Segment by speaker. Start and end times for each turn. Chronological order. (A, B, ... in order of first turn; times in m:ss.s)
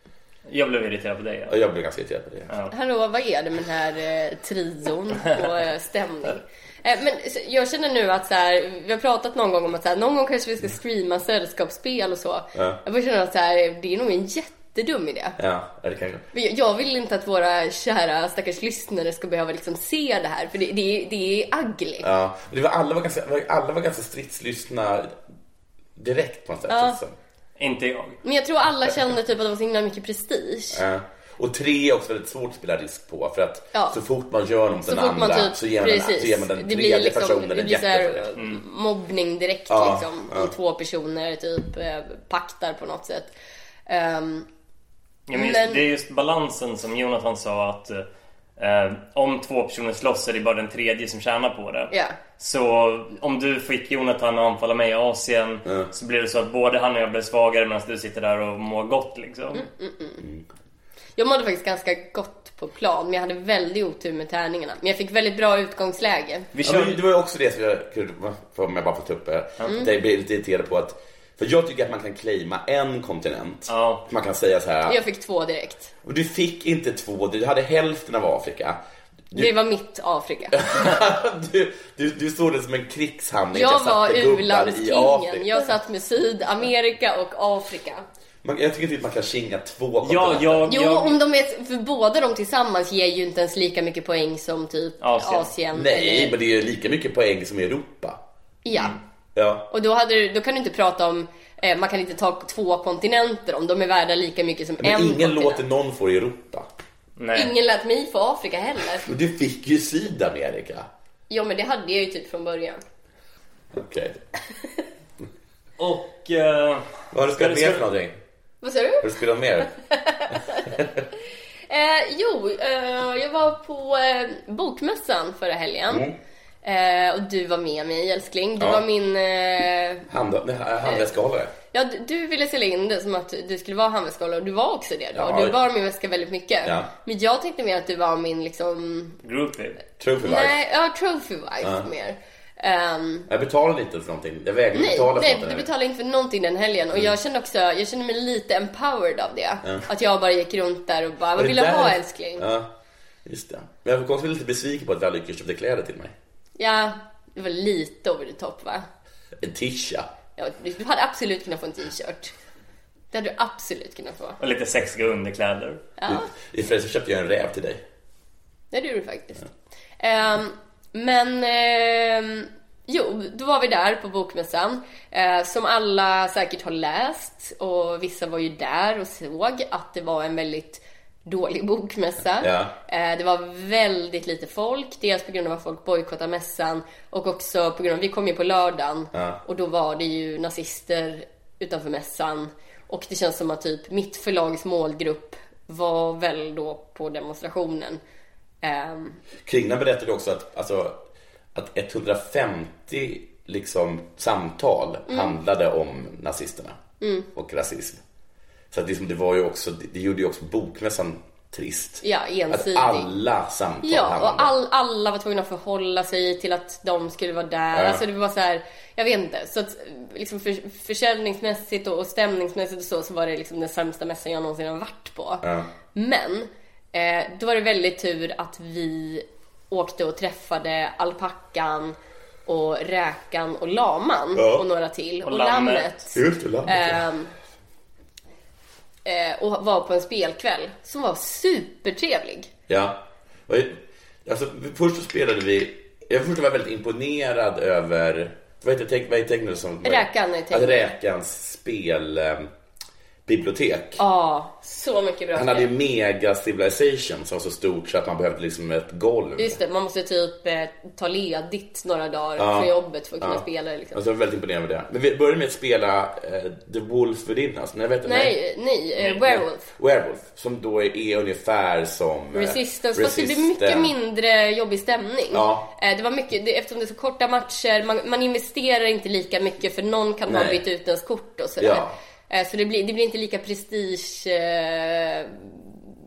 0:00.5-0:01.5 A
0:01.5-0:02.5 B
0:02.7-0:15.4 C
0:15.4-0:16.2 B
0:16.3-0:22.1 C
0:22.0-0:25.2 B
0:26.0-0:27.2 B
0:26.7-0:27.0 C
0:27.6-0:28.2 A
0:28.2-0:30.8 C
0:30.7-0:38.3 B
0:34.8-0:43.3 C
0:39.7-0:40.5 B
0:43.9-0:44.5 C
0:45.3-0:48.0 A
0:45.3-0:45.8 C
0:48.6-0:59.6 A
0:51.9-0:52.2 C
0:59.5-1:00.2 C
1:01.2-1:06.5 C
1:06.5-1:07.0 A
1:06.6-1:15.0 B
1:13.7-1:14.0 A
1:14.8-1:15.9 C
1:16.0-1:18.8 B
1:19.3-1:20.7 C
1:20.5-1:25.6 B
1:23.5-1:28.0 C
1:28.4-1:30.7 B
1:30.0-1:31.2 A
1:30.7-1:36.4 C
1:35.0-1:35.5 A
1:35.7-1:38.2 B
1:38.6-1:39.0 C
1:39.3-1:39.7 B
1:39.7-1:45.6 C
1:44.8-1:46.7 B
1:47.2-1:47.5 A
1:47.3-1:49.1 C
1:49.0-1:50.9 B
1:51.3-1:52.8 C
1:53.7-1:54.2 B
1:55.8-1:57.8 A
1:57.1-1:58.2 B
1:58.6-1:59.1 C
1:59.0-1:59.7 B
1:59.8-2:00.8 C
2:00.7-2:01.0 B
2:01.7-2:06.0 C
2:05.9-2:06.2 B
2:06.6-2:10.0 C
2:10.1-2:11.5 B
2:11.7-2:19.2 C
2:15.1-2:15.6 B
2:16.6-2:16.9 B
2:19.2-2:19.8 A
2:20.0-2:20.6 B
2:20.2-2:23.3 C
2:23.3-2:25.7 B
2:24.7-2:32.4 C
2:31.4-2:32.7 B
2:33.2-2:36.1 B
2:36.6-2:38.8 C
2:39.4-2:40.1 B
2:40.4-2:42.3 C
2:43.1-2:44.4 C
2:44.4-2:45.8 A
2:46.0-2:46.3 C
2:46.0-2:47.8 B
2:48.7-2:49.4 C
2:50.0-3:18.0 C
3:02.4-3:02.7 B
3:09.1-3:09.4 B
3:18.6-3:19.2 C
3:19.4-3:21.0 B
3:21.5-3:26.8 B
3:25.1-3:25.3 C
3:27.0-3:27.3 C
3:27.3-3:28.0 B
3:28.7-3:34.5 B
3:32.0-3:33.1 C
3:33.8-3:57.3 C
3:37.7-3:38.0 B
3:45.4-3:45.7 B
3:54.3-3:54.6 B
3:55.2-3:56.0 A
3:56.1-3:57.0 B
3:59.0-4:02.5 C
4:02.7-4:12.5 B
4:09.8-4:10.9 C
4:13.2-4:14.0 B
4:14.0-4:15.7 C
4:15.3-4:19.6 B
4:19.4-4:24.0 C
4:22.4-4:28.4 B
4:28.0-4:29.6 C
4:29.2-4:33.9 B
4:32.3-4:45.9 C
4:35.3-4:35.7 B
4:40.3-4:40.6 B
4:41.6-4:41.9 B